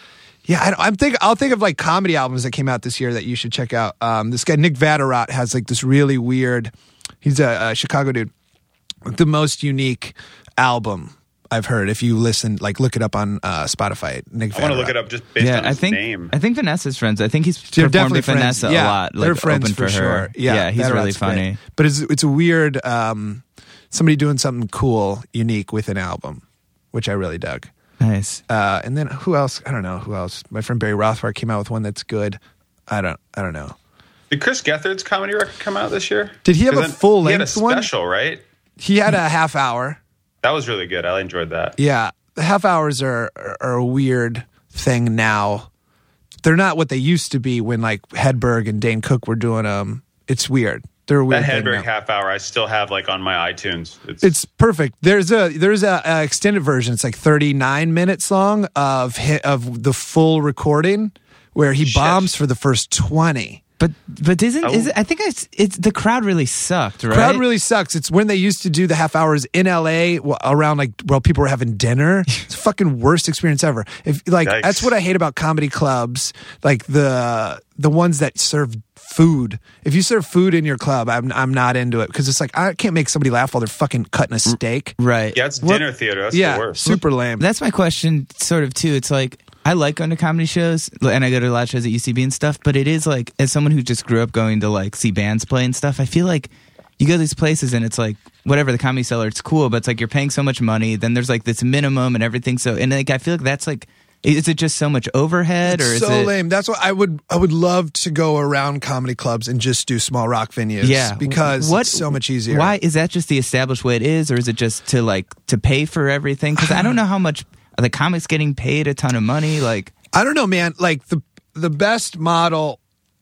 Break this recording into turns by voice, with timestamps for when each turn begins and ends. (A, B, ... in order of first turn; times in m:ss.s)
0:00.4-0:06.7 A
0:07.2-0:08.3 A
0:09.0-0:14.9 A
0:14.5-0:16.3 B
0:15.4-0:21.6 C
0:17.7-0:26.4 A
0:26.9-0:27.7 A
0:28.0-0:28.4 C
0:28.5-0:33.8 A
0:34.3-0:38.4 B
0:36.4-0:37.9 A
0:38.8-0:40.0 A
0:40.4-0:41.8 B
0:41.8-0:45.7 A
0:46.4-0:51.9 A
0:51.3-0:54.3 B
0:54.2-1:03.6 A
1:01.8-1:02.3 B
1:03.8-1:07.4 C
1:04.6-1:04.9 B
1:07.1-1:25.0 A
1:14.4-1:14.9 B
1:25.0-1:25.4 C
1:25.3-1:26.8 B
1:25.6-1:27.4 A
1:26.9-1:46.3 C
1:45.6-1:52.7 A
1:50.8-1:59.9 C
2:00.1-2:02.8 A